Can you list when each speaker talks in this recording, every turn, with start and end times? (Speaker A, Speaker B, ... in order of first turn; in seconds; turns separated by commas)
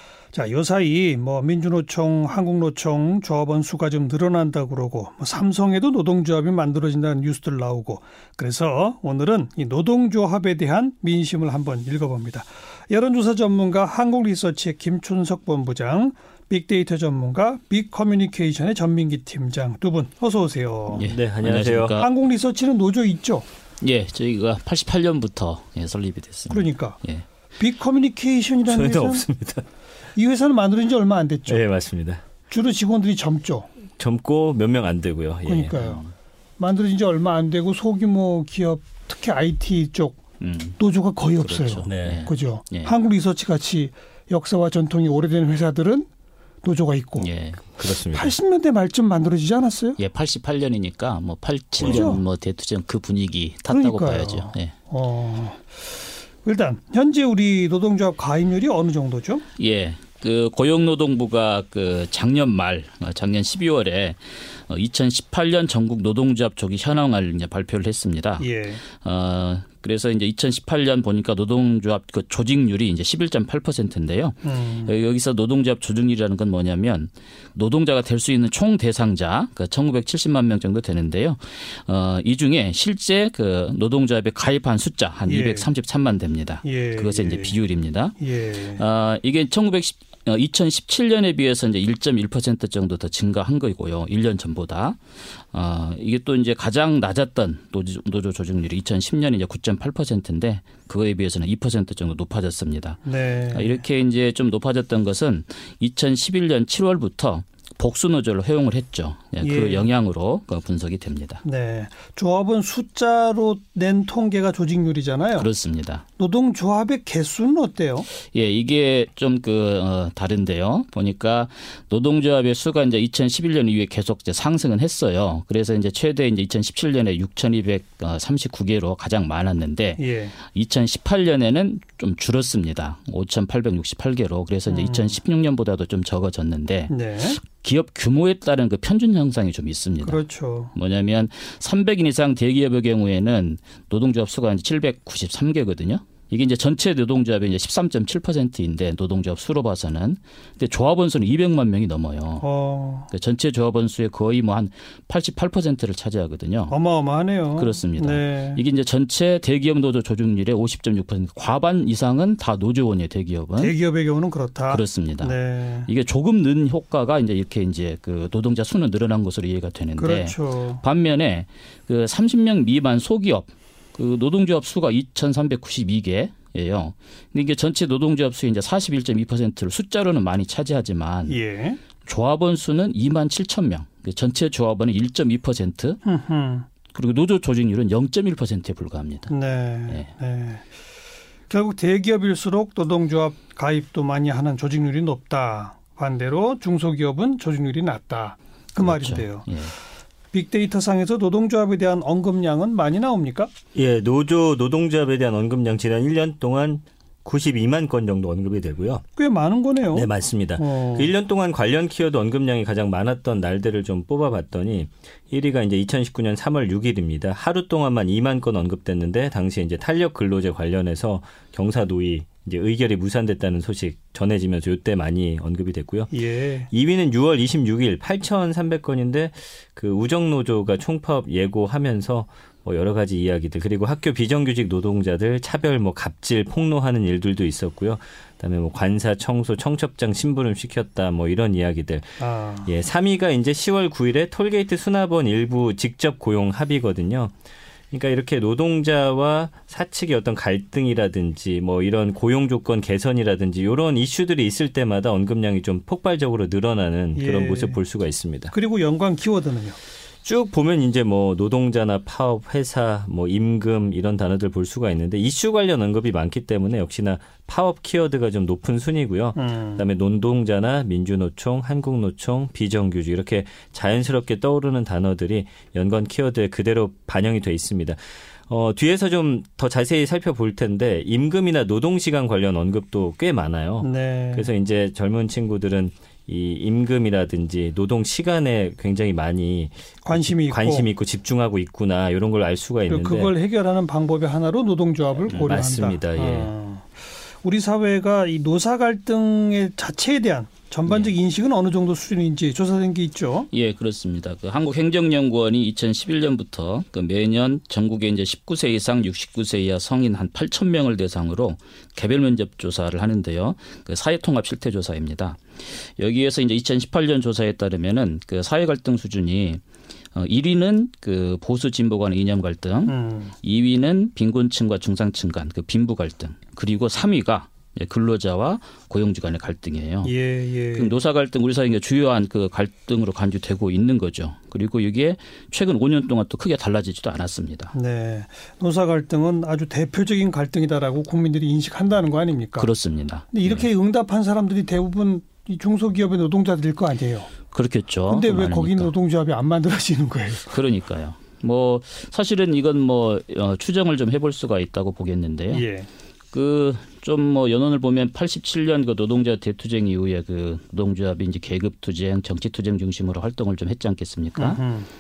Speaker A: 0.3-21.1, Speaker B: 20.9-22.1, Speaker C: 21.1-22.0, Speaker A: 21.9-23.4, Speaker B: 23.8-27.2, Speaker A: 26.5-27.0, Speaker A: 27.6-29.2, Speaker C: 28.7-29.6, Speaker A: 30.1-31.6, Speaker C: 31.5-32.2, Speaker A: 32.5-33.7, Speaker C: 34.0-35.8, Speaker A: 35.5-36.0, Speaker B: 35.7-36.1, Speaker A: 36.6-40.2, Speaker B: 40.4-40.8, Speaker A: 40.8-46.1, Speaker B: 41.4-42.9, Speaker C: 41.9-42.3, Speaker A: 46.6-47.3, Speaker B: 47.2-47.6, Speaker C: 47.8-48.4, Speaker A: 48.0-50.0, Speaker B: 50.0-54.7, Speaker A: 51.8-52.2, Speaker C: 51.8-52.1, Speaker A: 53.7-55.8, Speaker A: 56.4-59.4, Speaker B: 59.6-95.0, Speaker A: 68.4-68.8, Speaker A: 74.4-74.9, Speaker A: 85.2-85.7, Speaker A: 86.6-87.6, Speaker A: 88.2-88.8, Speaker B: 95.5-111.4, Speaker A: 103.0-103.8, Speaker A: 109.4-109.9, Speaker A: 111.4-115.5, Speaker B: 115.3-116.0, Speaker A: 116.2-118.1, Speaker B: 118.3-140.2, Speaker A: 130.0-130.3, Speaker A: 134.7-135.2, Speaker A: 136.9-137.4, Speaker A: 140.0-140.7, Speaker B: 140.7-152.4, Speaker A: 152.4-153.1, Speaker B: 153.1-156.7, Speaker A: 156.7-158.6, Speaker B: 157.6-163.8, Speaker A: 163.6-165.9, Speaker B: 164.7-181.4, Speaker A: 170.0-170.8, Speaker A: 181.3-181.8, Speaker B: 182.0-186.0, Speaker A: 186.0-186.7, Speaker B: 186.9-189.3, Speaker A: 189.3-190.6, Speaker A: 191.5-199.5, Speaker B: 198.8-199.7, Speaker A: 200.3-203.5, Speaker C: 203.7-209.0, Speaker A: 209.2-211.1, Speaker C: 209.9-226.1, Speaker A: 226.1-226.7, Speaker C: 226.7-247.3, Speaker A: 242.2-242.7, Speaker C: 247.9-258.5, Speaker A: 257.1-257.8, Speaker A: 258.5-259.8, Speaker C: 260.2-293.3, Speaker A: 269.4-269.8, Speaker A: 283.8-284.5, Speaker A: 290.0-290.9, Speaker A: 292.9-296.9, Speaker C: 295.3-296.5, Speaker B: 295.3-295.6, Speaker A: 297.4-303.5, Speaker B: 300.9-301.1, Speaker B: 303.5-319.6, Speaker B: 320.1-330.1, Speaker A: 322.9-323.3, Speaker A: 330.0-330.9, Speaker B: 330.7-337.7, Speaker A: 337.7-342.7, Speaker B: 342.6-343.6, Speaker A: 343.3-347.3, Speaker B: 347.5-348.9, Speaker A: 348.1-350.6, Speaker B: 350.5-355.6, Speaker A: 355.5-355.9, Speaker B: 356.3-364.6, Speaker A: 364.4-364.9